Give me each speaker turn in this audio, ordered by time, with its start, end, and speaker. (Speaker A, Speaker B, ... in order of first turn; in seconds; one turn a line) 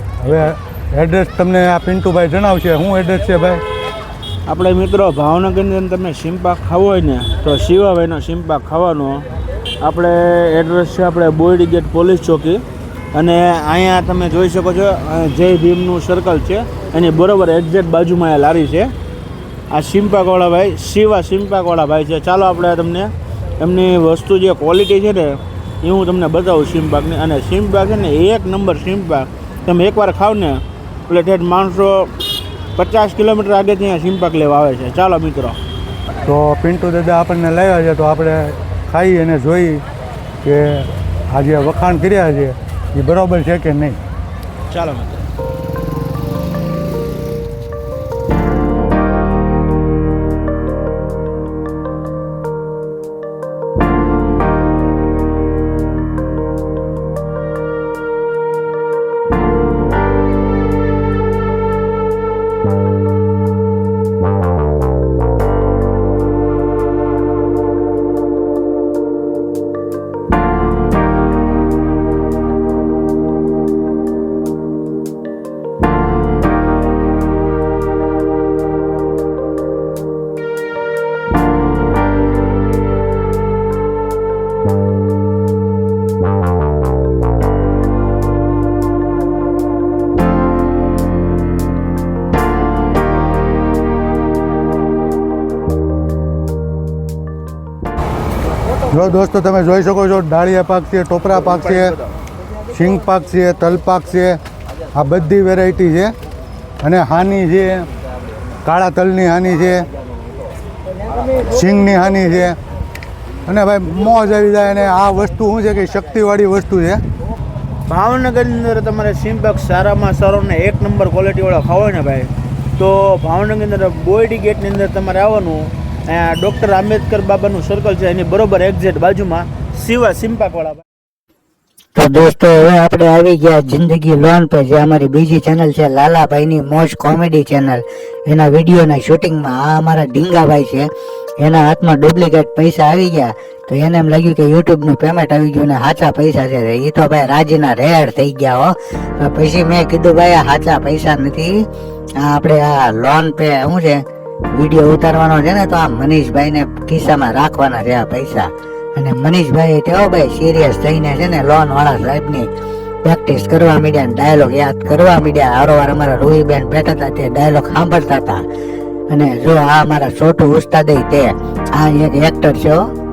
Speaker A: 0.2-3.6
Speaker B: 4.5-9.2
Speaker B: 9.8-12.6
Speaker B: 13.1-18.9
Speaker B: 19.7-32.1
Speaker B: 32.8-35.6
Speaker A: 36.3-39.8
Speaker A: 40.4-44.0
Speaker B: 44.7-45.2
Speaker A: 98.9-102.0
Speaker A: 102.7-104.4
Speaker A: 105.0-106.1
Speaker A: 106.8-107.9
Speaker A: 108.6-109.9
Speaker A: 111.5-112.6
Speaker A: 113.5-117.0
Speaker B: 117.9-130.8
Speaker C: 132.0-140.9
Speaker C: 141.4-151.6
Speaker C: 152.2-154.0
Speaker C: 154.6-162.5
Speaker C: 163.1-168.4
Speaker C: 169.1-172.8